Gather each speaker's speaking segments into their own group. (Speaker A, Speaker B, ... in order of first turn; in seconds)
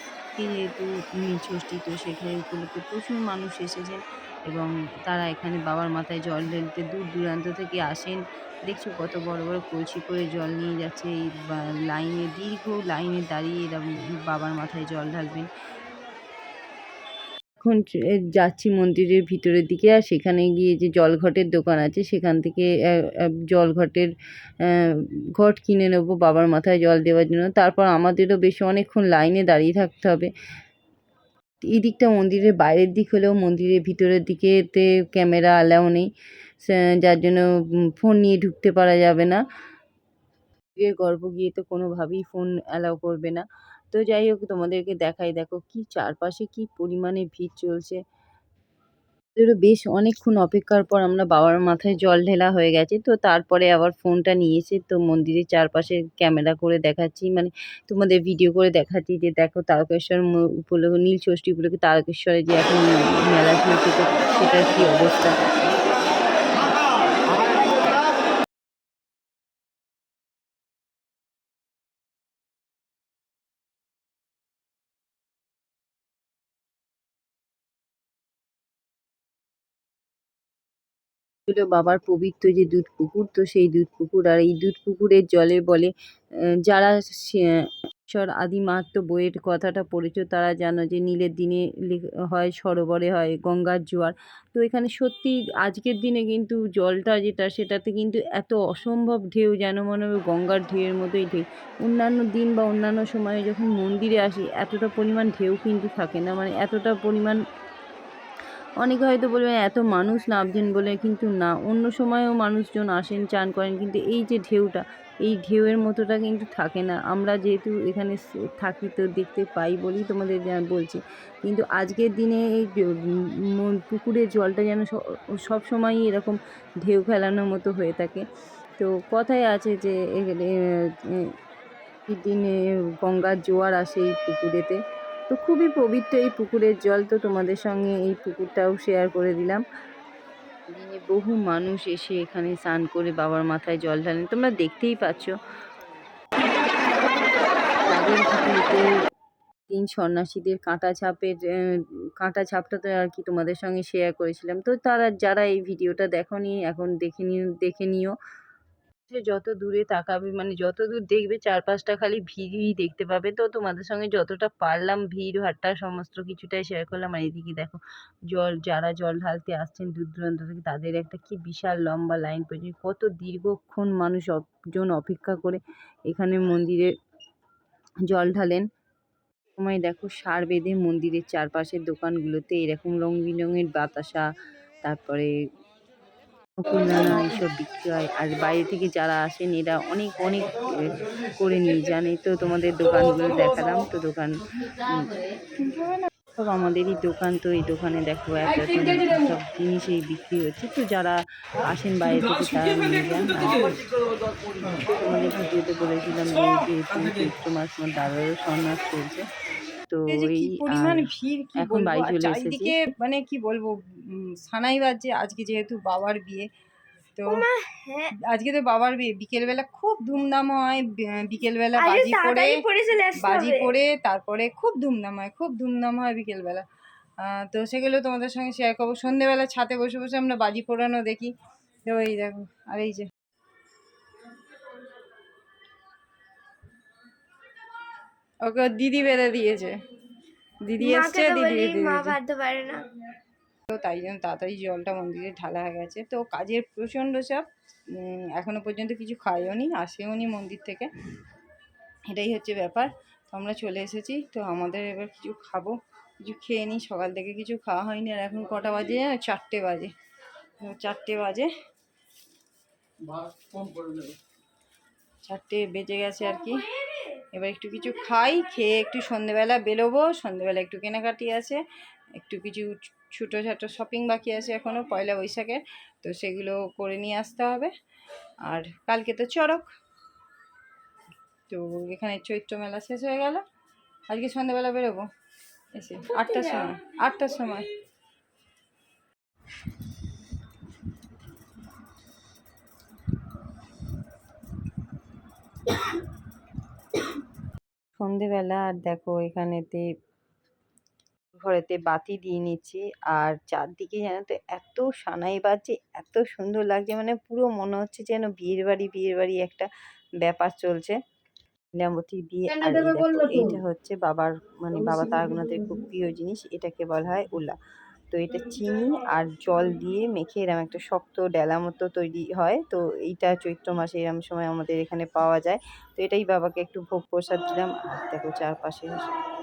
Speaker A: 0.3-15.5, 17.6-24.1, 24.6-30.3, 31.7-36.1, 36.6-37.4, 38.0-39.4, 40.8-48.0, 49.4-65.3, 81.5-85.9, 86.7-107.4, 108.8-128.2, 128.8-131.3, 132.1-132.5, 133.0-134.8, 135.3-139.6, 140.7-145.3, 147.9-149.0, 149.7-158.2, 159.1-167.8, 168.3-176.9, 178.1-178.6, 179.6-184.2, 184.8-185.3, 186.6-203.8, 204.7-209.2, 209.9-211.1, 211.6-212.8, 265.2-266.5, 298.0-299.8, 301.4-309.6, 310.2-311.0, 311.8-317.6, 318.1-329.1
Speaker B: 210.1-216.5, 217.2-217.5, 218.2-222.6, 223.2-226.6, 227.2-231.3, 231.8-233.1, 238.4-239.8, 240.7-242.2, 243.7-247.4, 248.0-250.9, 252.1-255.7, 256.2-259.9, 260.6-261.5, 266.2-266.5, 267.3-271.6, 272.2-277.7, 278.5-279.6, 281.5-283.4, 284.1-285.0, 285.8-287.7
Speaker C: 217.3-218.1, 221.8-223.7, 240.8-242.9